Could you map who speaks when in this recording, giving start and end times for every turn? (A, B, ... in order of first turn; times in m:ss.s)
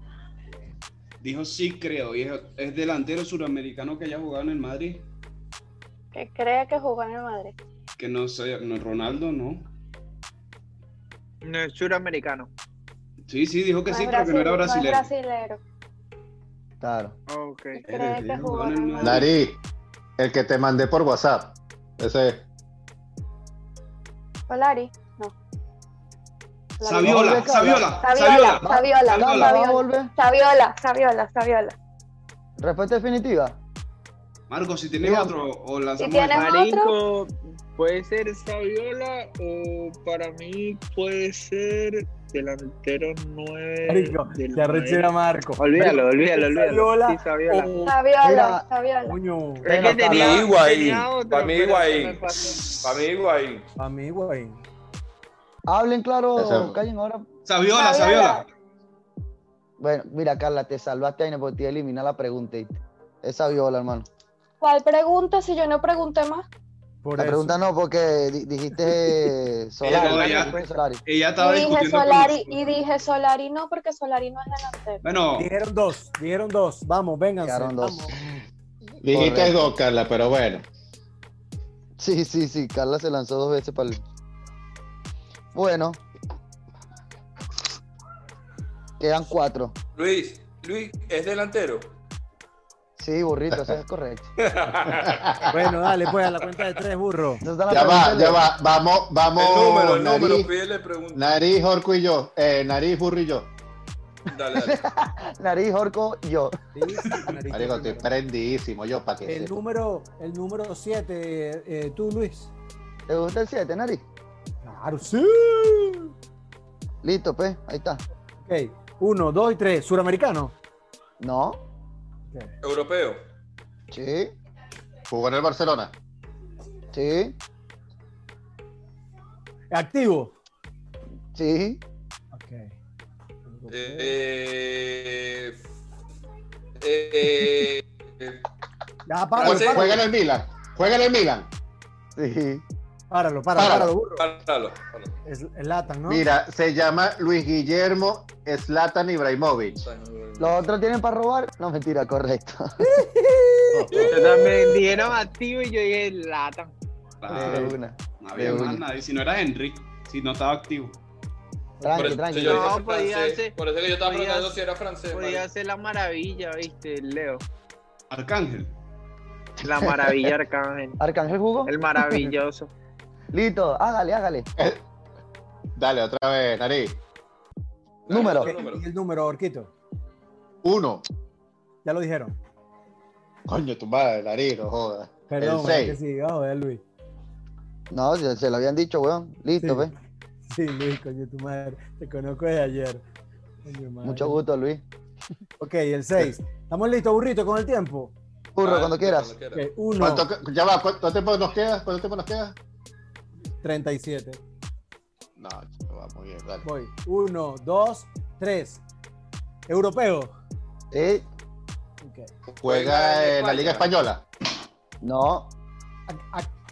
0:01.2-0:05.0 A
0:06.1-0:07.6 B
0:08.0-0:09.7 A
0:11.4-0:12.5 C
0:13.2-0:15.1 A
0:13.9-0:15.6 B
0:16.8-0:17.2 D
0:17.3-0:17.8 C
0:17.8-0:19.3 B
0:17.9-0:19.3 A
0:19.0-0:19.6 E
0:20.2-0:22.4 E
0:24.5-0:25.3 B
0:26.8-0:31.8 B
0:26.8-0:29.6 A
0:27.0-0:28.1 D
0:28.6-0:30.1 D
0:32.6-0:33.6 D
0:34.5-0:36.5 A
0:35.0-0:35.3 D
0:36.0-0:37.0 B
0:36.3-0:47.7 C
0:43.9-0:48.0 F
0:47.8-0:49.2 B
0:48.2-0:48.6 D
0:49.1-0:49.7 F
0:49.6-0:52.6 C
0:49.6-0:50.5 D
0:50.1-0:52.2 G
0:52.8-0:53.6 G
0:53.8-0:54.6 F
0:55.7-0:57.3 D
0:56.4-0:56.8 E
0:57.5-0:58.5 A
0:57.7-0:58.4 B
0:59.8-1:04.1 D
1:04.6-1:06.5 B
1:07.0-1:07.6 F
1:07.2-1:11.0 D
1:08.9-1:09.2 F
1:09.8-1:12.7 A
1:10.0-1:10.6 C
1:11.4-1:15.0 B
1:15.0-1:15.5 A
1:15.4-1:18.2 F
1:17.4-1:18.1 D
1:19.0-1:20.7 E
1:19.1-1:19.8 D
1:22.0-1:24.0 D
1:25.5-1:26.0 D
1:29.0-1:29.8 D
1:30.0-1:31.9 G
1:33.0-1:34.3 D
1:34.4-1:35.4 G
1:34.8-1:35.8 E
1:35.5-1:37.4 F
1:37.4-1:38.4 D
1:37.7-1:40.5 E
1:39.4-1:41.3 G
1:41.1-1:43.5 E
1:44.3-1:44.8 G
1:44.5-1:46.6 D
1:46.7-1:48.1 F
1:47.5-1:49.5 E
1:49.2-1:52.5 F
1:53.1-1:54.0 D
1:54.6-1:56.1 F
1:57.0-1:58.0 D
1:58.4-2:00.6 F
2:01.2-2:01.6 D
2:02.6-2:03.2 G
2:03.9-2:04.3 D
2:05.1-2:05.9 E
2:06.9-2:07.4 D
2:09.7-2:10.3 F
2:11.3-2:11.8 D
2:12.3-2:12.7 F
2:13.5-2:14.2 F
2:13.7-2:15.6 G
2:16.8-2:18.4 G
2:19.1-2:20.0 F
2:19.4-2:20.0 G
2:19.4-2:21.5 E
2:22.2-2:22.6 D
2:23.1-2:24.2 F
2:23.6-2:23.9 E
2:24.2-2:25.1 G
2:25.3-2:26.2 F
2:26.1-2:29.8 E
2:29.8-2:30.6 G
2:30.4-2:32.9 D
2:32.8-2:34.7 F
2:33.8-2:34.0 E
2:33.9-2:34.2 G
2:34.0-2:36.7 C
2:37.2-2:41.0 A
2:37.3-2:38.8 D
2:37.4-2:37.6 F
2:41.8-2:42.2 F
2:41.8-2:42.8 D
2:41.9-2:45.5 G
2:42.4-2:44.6 C
2:45.1-2:47.4 C
2:48.1-2:48.7 A
2:49.6-2:51.0 C
2:51.0-2:51.7 D
2:51.6-2:52.7 C
2:53.3-2:54.5 D
2:55.8-2:57.0 E
2:58.1-2:58.8 G
2:58.1-2:58.6 D
2:58.2-2:59.7 F
3:00.6-3:01.0 E
3:01.8-3:02.4 F
3:03.5-3:06.0 E
3:05.3-3:06.8 F
3:07.9-3:09.9 D
3:09.6-3:09.9 F
3:10.5-3:13.0 F
3:13.6-3:14.4 F
3:14.0-3:14.8 D
3:15.6-3:18.1 F
3:18.6-3:19.3 D
3:18.6-3:19.6 G
3:19.5-3:20.3 F
3:19.9-3:22.6 E
3:23.6-3:24.4 F
3:25.4-3:26.7 E
3:26.6-3:28.8 F
3:29.7-3:30.3 F
3:30.9-3:31.2 D
3:32.0-3:32.3 F
3:32.6-3:34.2 E
3:32.6-3:33.9 G
3:35.0-3:35.5 D
3:36.1-3:36.5 F